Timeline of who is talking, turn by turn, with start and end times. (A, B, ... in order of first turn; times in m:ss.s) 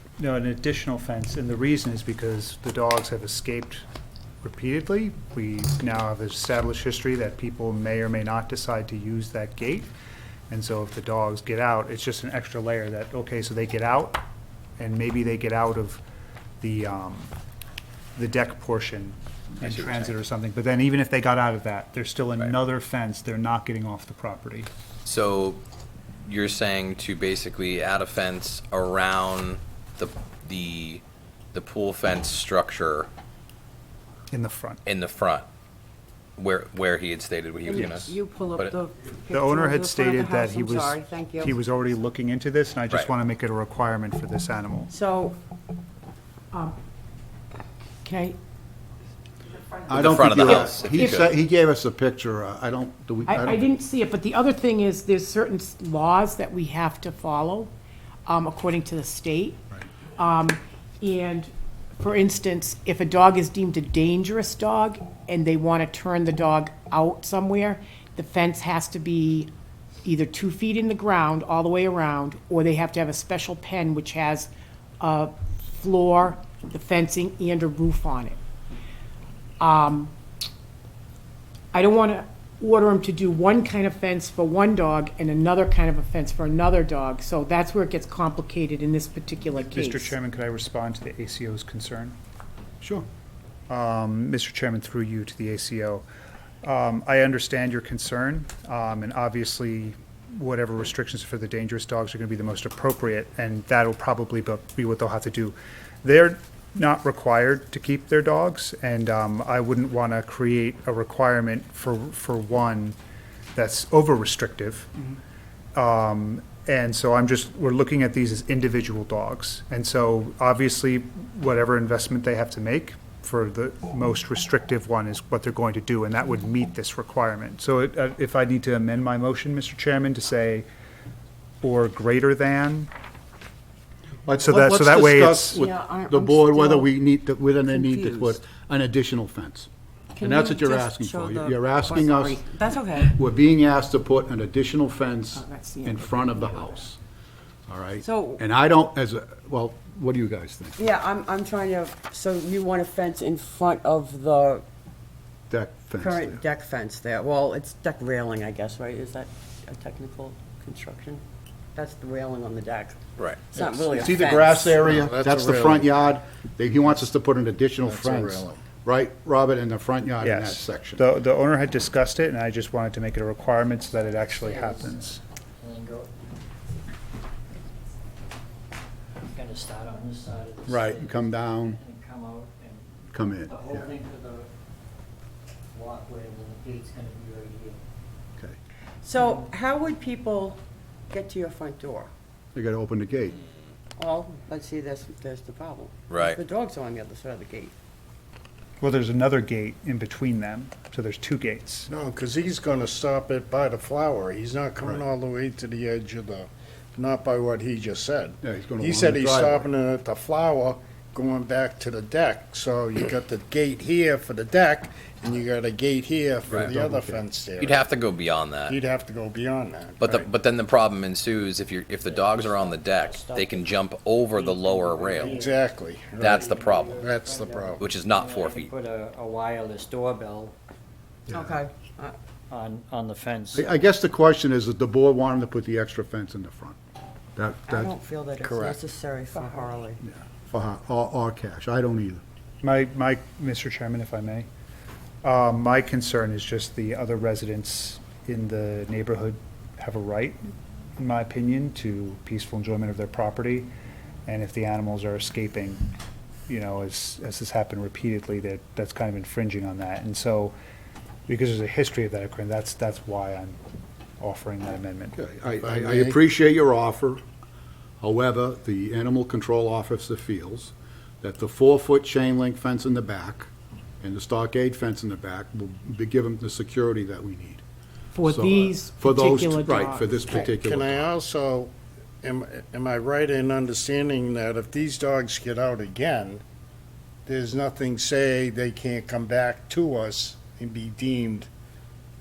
0:00.2-0:03.8 A
0:04.4-0:09.9 A
0:10.5-0:14.2 A
0:14.8-0:16.0 A
0:16.6-0:17.3 A
0:18.2-0:24.7 A
0:19.6-0:20.2 B
0:25.0-0:25.6 B
0:26.3-0:31.0 B
0:31.5-0:33.1 B
0:34.3-0:34.8 A
0:34.8-0:35.5 B
0:36.4-0:38.8 B
0:37.7-0:41.6 C
0:39.3-0:44.9 A
0:44.9-0:45.4 C
0:46.5-0:46.8 D
0:48.0-0:48.4 D
0:49.9-0:53.6 E
0:49.9-0:51.3 B
0:53.3-0:57.7 D
0:58.3-1:09.5 D
1:10.0-1:18.4 D
1:19.6-1:20.1 D
1:21.7-1:30.2 D
1:29.5-1:32.2 A
1:32.8-1:33.1 E
1:33.7-1:36.0 A
1:36.6-1:53.0 A
1:53.6-1:54.9 A
1:55.8-2:10.7 A
2:11.6-2:12.9 A
2:14.3-2:19.7 E
2:14.4-2:15.7 A
2:15.6-2:16.9 C
2:17.7-2:18.4 C
2:20.1-2:23.2 C
2:20.2-2:22.5 E
2:23.1-2:27.0 E
2:25.3-2:26.7 D
2:27.7-2:30.8 E
2:28.0-2:28.4 C
2:30.8-2:34.6 C
2:35.5-2:36.4 E
2:36.0-2:41.2 C
2:41.8-2:44.8 C
2:43.2-2:43.4 B
2:43.6-2:51.0 E
2:44.8-2:45.9 F
2:47.8-2:48.6 F
2:50.2-2:55.2 A
2:54.1-2:55.0 G
2:55.6-2:56.1 G
2:59.2-3:02.8 G
3:00.7-3:01.8 E
3:03.1-3:03.9 E
3:03.4-3:04.5 G
3:05.7-3:07.8 G
3:09.0-3:10.6 C
3:11.1-3:12.1 C
3:12.6-3:13.4 E
3:14.0-3:17.7 C
3:16.1-3:16.4 B
3:18.8-3:21.9 A
3:21.9-3:37.8 F
3:28.4-3:29.7 E
3:36.5-3:37.2 E
3:37.6-3:38.8 B
3:38.7-3:40.3 F
3:40.0-3:45.4 B
3:42.3-3:43.6 C
3:44.4-3:45.6 G
3:45.2-3:47.8 F
3:46.2-3:47.0 B
3:46.2-3:50.6 G
3:47.8-3:48.7 B
3:51.3-3:51.6 E
3:51.3-3:52.2 C
3:52.5-3:53.7 G
3:53.5-3:56.8 E
3:57.4-3:57.9 E
3:57.7-4:00.0 C
3:58.4-3:58.8 F
4:00.0-4:02.2 E
4:02.6-4:04.5 A
4:05.2-4:13.7 A
4:14.3-4:15.9 A
4:16.5-4:20.6 A
4:21.3-4:23.6 A
4:24.2-4:25.2 A
4:25.2-4:27.2 E
4:25.6-4:26.2 F
4:28.0-4:33.5 E
4:34.0-4:37.6 E
4:38.1-4:40.6 D
4:38.3-4:41.1 E
4:40.4-4:41.7 F
4:42.2-4:46.4 F
4:47.3-4:51.5 F